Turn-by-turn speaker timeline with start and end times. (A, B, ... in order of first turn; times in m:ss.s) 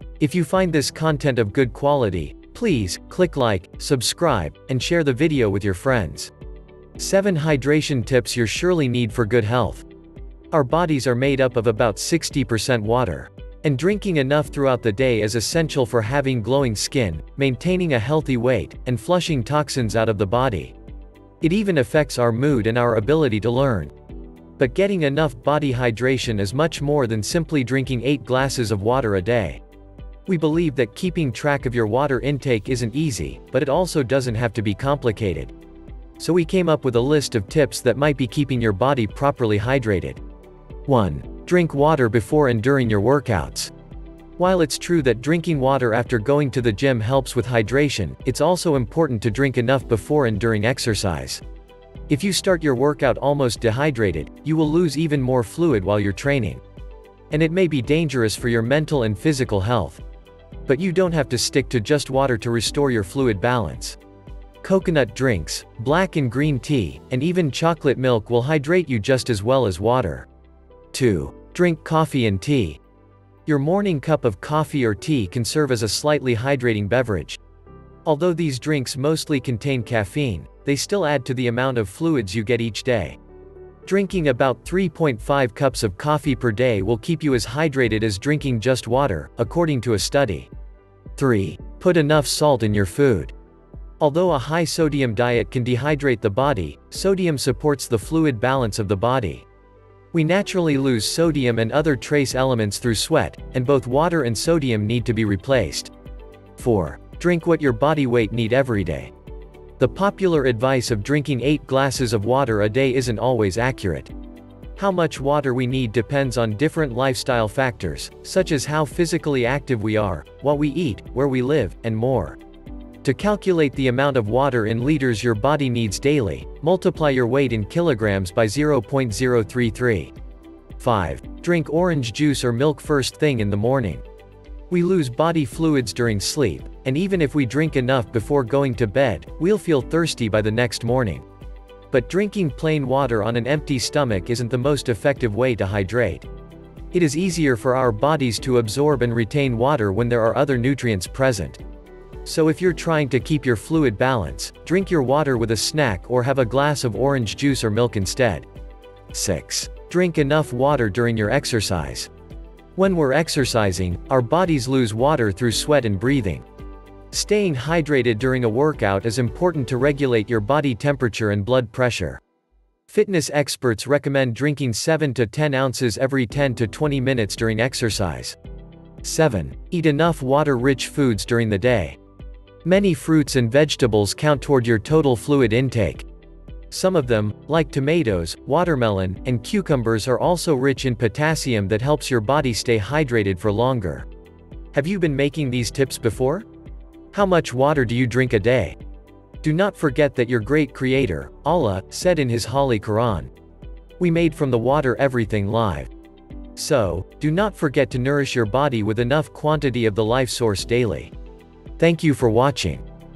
0:00.2-0:06.3 A
0:07.0-0:09.8 A
0:10.5-0:20.7 A
0:21.4-0:23.9 A
0:24.6-0:29.6 A
0:30.3-0:35.5 A
0:36.2-0:40.2 A
0:40.8-0:43.7 A
0:44.4-0:51.4 A
0:52.1-0:56.6 A
0:57.3-1:00.0 A
1:00.6-1:04.0 A
1:04.6-1:10.3 A
1:10.9-1:12.8 A
1:13.4-1:17.4 A
1:18.0-1:23.2 A
1:23.8-1:30.5 A
1:31.2-1:33.3 A
1:34.0-1:39.4 A
1:40.1-1:45.9 A
1:46.6-1:49.1 A
1:49.8-1:54.1 A
1:54.8-2:02.4 A
2:03.0-2:10.1 A
2:10.8-2:14.0 A
2:14.7-2:21.2 A
2:21.9-2:26.3 A
2:26.9-2:31.6 A
2:32.2-2:38.5 A
2:39.1-2:42.1 A
2:42.8-2:46.4 A
2:47.1-2:52.2 A
2:52.9-2:58.4 A
2:59.0-3:02.0 A
3:02.6-3:06.0 A
3:06.7-3:14.0 A
3:14.7-3:16.4 A
3:17.1-3:18.8 A
3:19.4-3:23.3 A
3:24.0-3:25.9 A
3:26.6-3:31.1 A
3:31.8-3:32.8 A